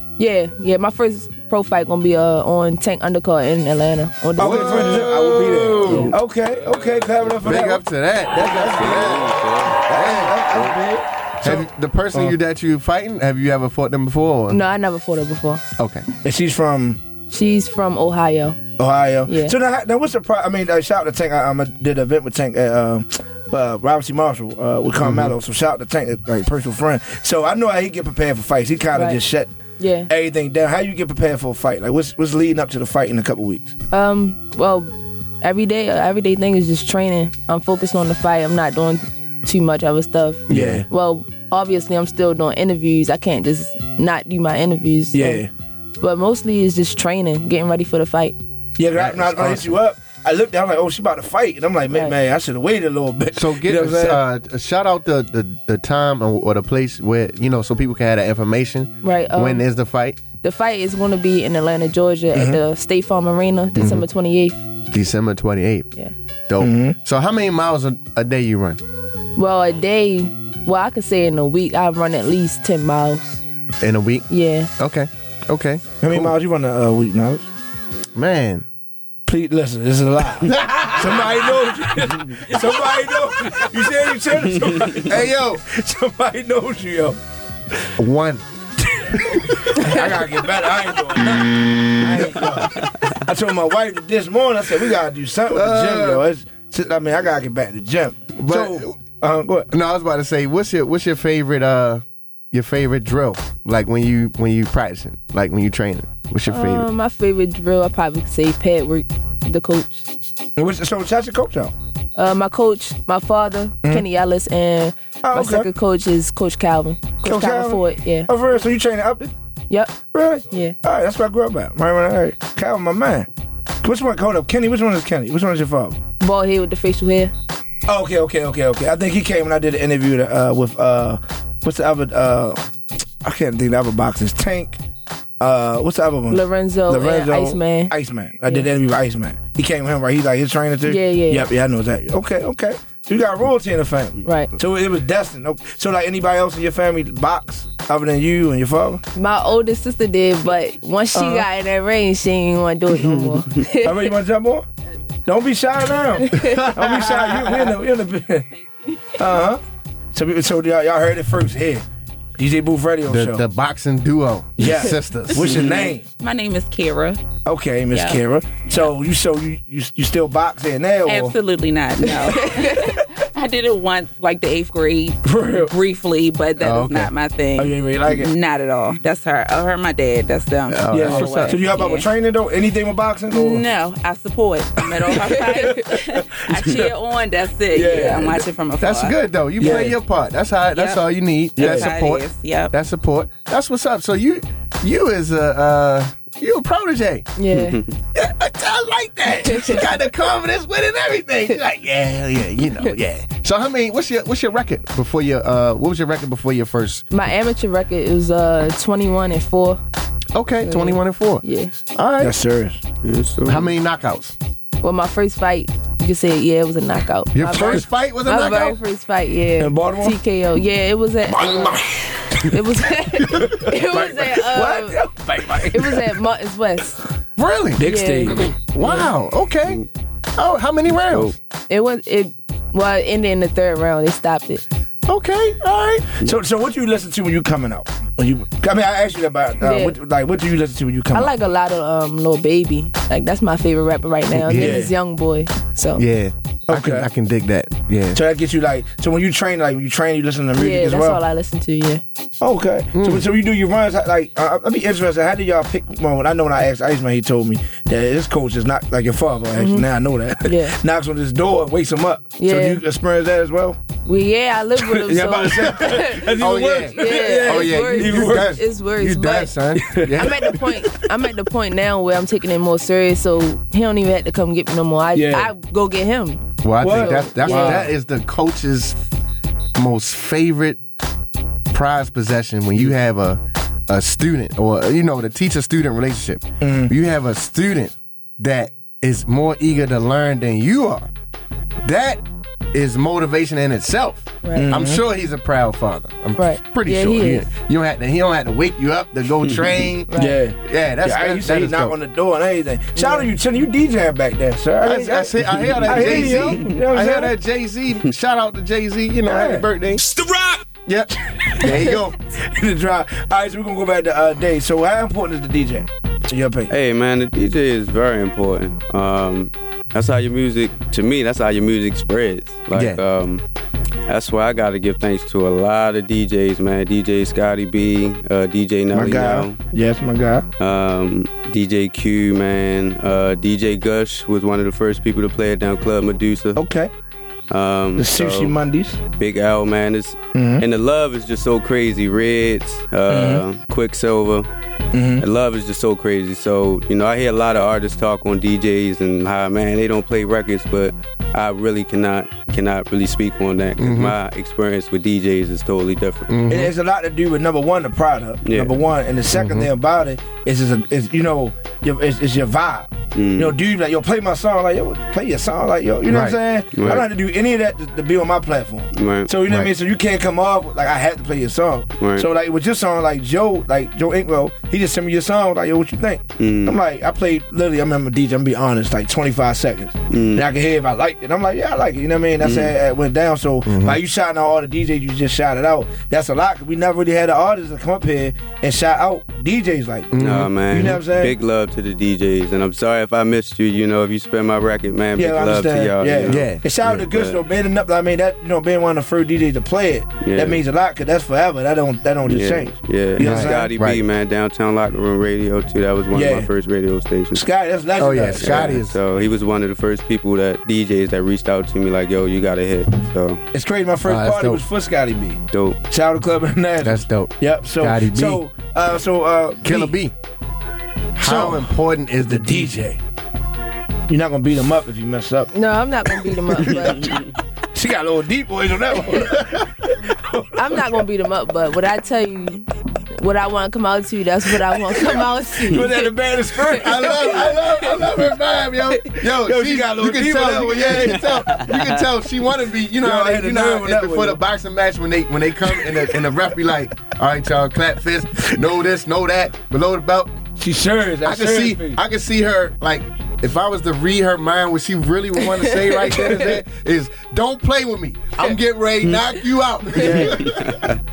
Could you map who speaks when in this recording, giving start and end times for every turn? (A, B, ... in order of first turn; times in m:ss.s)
0:00.2-0:05.1 A
0:04.4-0:06.2 B
0:04.4-0:09.2 C
0:05.8-0:06.1 A
0:07.4-0:10.6 B
0:08.8-0:09.8 D
0:09.9-0:12.4 C
0:11.4-0:14.6 B
0:14.5-0:15.6 A
0:15.8-0:16.0 B
0:16.2-0:17.0 C
0:17.3-0:18.6 A
0:18.8-0:29.5 C
0:19.3-0:19.6 A
0:25.0-0:25.4 B
0:28.9-0:29.2 A
0:29.8-0:30.1 A
0:30.1-0:33.7 C
0:33.9-0:45.4 A
0:40.5-0:40.8 B
0:40.5-0:40.9 C
0:45.1-0:45.5 C
0:46.0-0:48.4 A
0:48.8-0:54.2 C
0:49.0-0:49.7 B
0:53.3-1:00.2 B
0:59.0-0:59.6 A
1:00.4-1:04.6 A
1:02.3-1:02.6 C
1:03.8-1:04.1 B
1:04.9-1:05.9 B
1:06.5-1:08.8 B
1:06.6-1:07.0 C
1:09.4-1:13.4 A
1:13.8-1:16.3 B
1:14.3-1:14.7 A
1:16.0-1:17.5 C
1:18.2-1:18.7 B
1:19.3-1:27.2 C
1:20.4-1:21.4 B
1:25.0-1:25.6 B
1:28.0-1:28.4 B
1:29.1-1:39.7 C
1:35.5-1:36.2 B
1:38.4-1:39.0 B
1:39.7-1:46.9 B
1:46.5-1:50.1 A
1:50.6-1:51.7 C
1:52.2-1:58.3 A
1:55.2-1:55.7 C
1:57.2-1:59.3 C
1:59.7-2:00.0 A
2:00.1-2:03.3 C
2:00.5-2:00.8 A
2:03.8-2:06.0 C
2:06.2-2:07.3 A
2:07.9-2:12.6 C
2:13.2-2:14.8 C
2:15.4-2:29.0 C
2:16.3-2:17.9 A
2:20.9-2:21.5 A
2:24.2-2:24.5 A
2:29.2-2:34.1 A
2:31.1-2:31.5 C
2:33.8-2:34.7 C
2:35.3-2:38.5 C
2:36.3-2:36.7 A
2:36.3-2:37.5 B
2:39.2-2:39.6 C
2:40.1-2:41.8 C
2:42.4-2:43.4 C
2:43.1-2:45.6 B
2:44.6-2:46.1 C
2:45.7-2:47.2 E
2:47.4-2:51.4 C
2:47.9-2:48.8 E
2:51.1-3:02.1 E
2:55.2-2:55.7 C
2:56.6-2:57.1 B
2:57.6-2:58.3 C
3:00.7-3:01.6 B
3:00.9-3:03.6 C
3:03.3-3:09.2 E
3:05.1-3:06.9 C
3:07.7-3:08.4 C
3:08.8-3:17.3 B
3:09.6-3:10.0 C
3:10.7-3:11.1 E
3:11.6-3:11.9 C
3:11.6-3:12.7 E
3:17.4-3:17.8 A
3:17.5-3:17.9 D
3:18.2-3:27.0 B
3:19.4-3:19.8 A
3:27.1-3:29.8 A
3:30.3-3:32.4 B
3:30.6-3:31.8 A
3:32.2-3:32.8 C
3:33.0-3:33.7 D
3:33.4-3:34.4 B
3:34.8-3:41.8 A
3:37.3-3:38.8 B
3:39.6-3:40.2 C
3:41.3-3:42.5 C
3:42.5-3:45.0 A
3:43.3-3:46.2 C
3:45.7-3:47.0 A
3:47.4-3:49.8 B
3:47.8-3:48.5 C
3:47.8-3:49.1 A
3:50.4-3:51.4 B
3:51.7-3:54.6 A
3:55.1-3:56.1 B
3:56.2-4:01.3 C
3:59.6-4:00.0 A
4:01.1-4:06.0 A
4:04.3-4:04.8 B
4:04.5-4:04.9 C
4:06.0-4:08.2 B
4:06.7-4:07.1 C
4:08.1-4:11.2 C
4:10.6-4:12.0 A
4:12.4-4:23.8 C
4:12.9-4:13.3 B
4:19.6-4:19.9 A
4:20.4-4:20.8 A
4:22.4-4:22.8 A
4:24.1-4:37.9 A
4:24.8-4:28.6 C
4:25.4-4:30.6 B
4:29.8-4:30.6 C
4:35.1-4:35.5 C
4:36.6-4:39.0 B
4:36.8-4:37.9 C
4:39.8-4:40.8 B
4:41.7-4:51.1 B
4:46.6-4:46.9 C
4:51.8-4:52.2 B
4:52.7-5:00.1 B
4:54.4-4:54.7 A
4:54.5-4:55.0 C
4:56.4-4:57.5 A
5:00.1-5:00.4 A
5:00.1-5:07.3 C
5:00.6-5:02.0 B
5:03.0-5:03.3 A
5:04.8-5:10.0 B
5:09.3-5:09.7 C
5:10.9-5:12.2 B
5:11.6-5:16.7 C
5:16.7-5:23.4 D
5:22.7-5:23.0 B
5:24.1-5:29.6 D
5:28.9-5:30.5 C
5:30.6-5:36.6 D
5:36.6-5:36.9 C
5:37.5-5:38.6 D
5:38.0-5:39.0 C
5:39.2-5:44.5 D
5:40.3-5:40.6 C
5:43.1-5:43.4 C
5:44.9-5:45.2 C
5:45.2-5:56.3 D
5:53.8-5:54.2 B
5:56.3-5:56.7 B
5:56.5-6:31.3 C
5:58.4-5:58.8 D
5:59.3-5:59.7 B
6:03.1-6:03.6 D
6:06.1-6:06.4 B
6:06.8-6:07.1 D
6:08.9-6:09.3 D
6:12.0-6:12.3 D
6:16.4-6:16.8 D
6:20.1-6:20.4 D
6:22.4-6:22.7 D
6:23.7-6:24.0 B
6:30.1-6:30.9 B
6:30.2-6:37.4 D
6:35.2-6:43.7 C
6:36.3-6:37.0 B
6:40.2-6:40.6 D
6:42.3-6:47.4 D
6:43.2-6:44.0 B
6:46.1-6:46.5 C
6:47.3-6:48.8 C
6:48.0-6:49.0 B
6:48.4-6:53.4 D
6:53.5-6:59.9 C
6:54.0-6:54.6 B
6:55.5-6:55.8 D
6:56.8-6:58.4 B
6:59.6-7:00.1 B
7:01.2-7:02.7 B
7:01.2-7:01.7 C
7:02.3-7:03.0 C
7:04.1-7:05.5 C
7:05.5-7:07.1 A
7:07.7-7:09.6 C
7:09.2-7:09.5 B
7:10.1-7:10.9 C
7:10.6-7:16.1 A
7:14.8-7:17.6 C
7:16.7-7:30.3 B
7:19.3-7:21.2 C
7:23.0-7:24.4 C
7:30.6-7:32.0 C
7:31.2-7:40.8 B
7:35.6-7:36.0 A
7:36.1-7:36.6 C
7:40.0-7:40.4 C
7:40.4-7:41.0 D